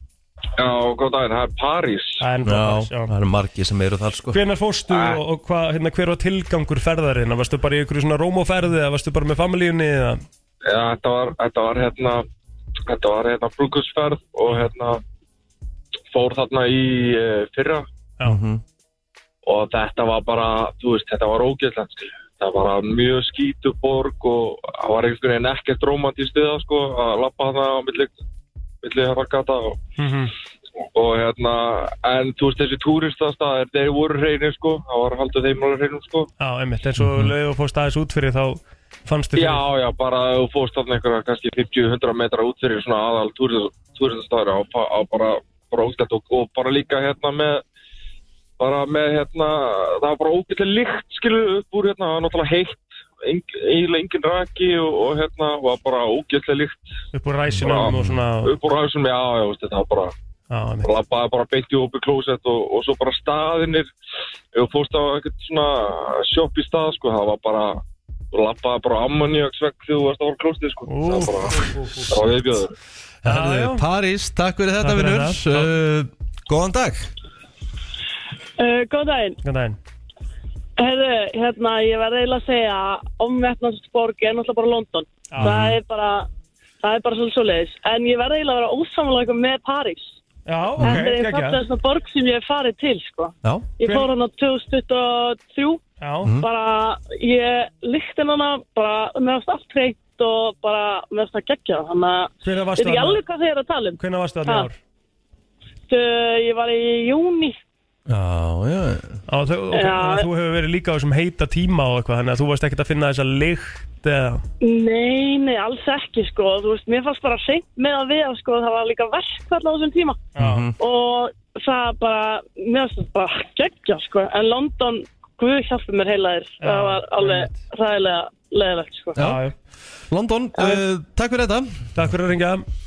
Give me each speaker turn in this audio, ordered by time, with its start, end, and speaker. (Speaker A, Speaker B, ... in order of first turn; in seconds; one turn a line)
Speaker A: 0.6-2.2
Speaker B: 2.2-3.1
Speaker C: 2.4-4.4
Speaker B: 4.3-10.2
Speaker A: 4.9-5.2
Speaker A: 10.7-12.2
Speaker A: 12.8-15.0
Speaker A: 16.1-17.8
Speaker C: 18.2-18.6
Speaker A: 19.4-28.1
Speaker A: 28.8-29.8
Speaker B: 30.0-30.3
Speaker A: 30.9-36.3
Speaker B: 36.4-39.6
Speaker C: 37.0-37.3
Speaker A: 39.4-47.6
Speaker A: 48.6-56.9
Speaker B: 57.1-58.5
Speaker A: 57.6-60.1
Speaker C: 57.9-58.1
Speaker B: 60.5-60.9
Speaker A: 60.8-63.9
Speaker A: 64.5-67.8
Speaker A: 68.3-72.7
Speaker B: 70.9-72.1
Speaker C: 73.2-77.1
Speaker B: 73.2-73.8
Speaker B: 74.8-75.7
Speaker D: 78.6-79.4
Speaker B: 79.4-79.8
Speaker D: 80.8-86.3
Speaker C: 85.4-85.8
Speaker D: 86.8-90.2
Speaker B: 90.5-91.6
Speaker C: 90.8-91.0
Speaker D: 90.8-104.7
Speaker B: 93.8-94.1
Speaker B: 96.0-96.3
Speaker B: 102.4-103.2
Speaker B: 104.0-104.8
Speaker D: 105.9-107.6
Speaker C: 108.1-109.2
Speaker B: 109.3-114.4
Speaker D: 109.7-110.3
Speaker D: 114.6-129.2
Speaker B: 120.3-120.7
Speaker C: 120.4-120.7
Speaker B: 126.6-127.6
Speaker C: 129.2-129.4
Speaker B: 129.2-129.5
Speaker C: 130.1-131.9
Speaker B: 131.9-132.7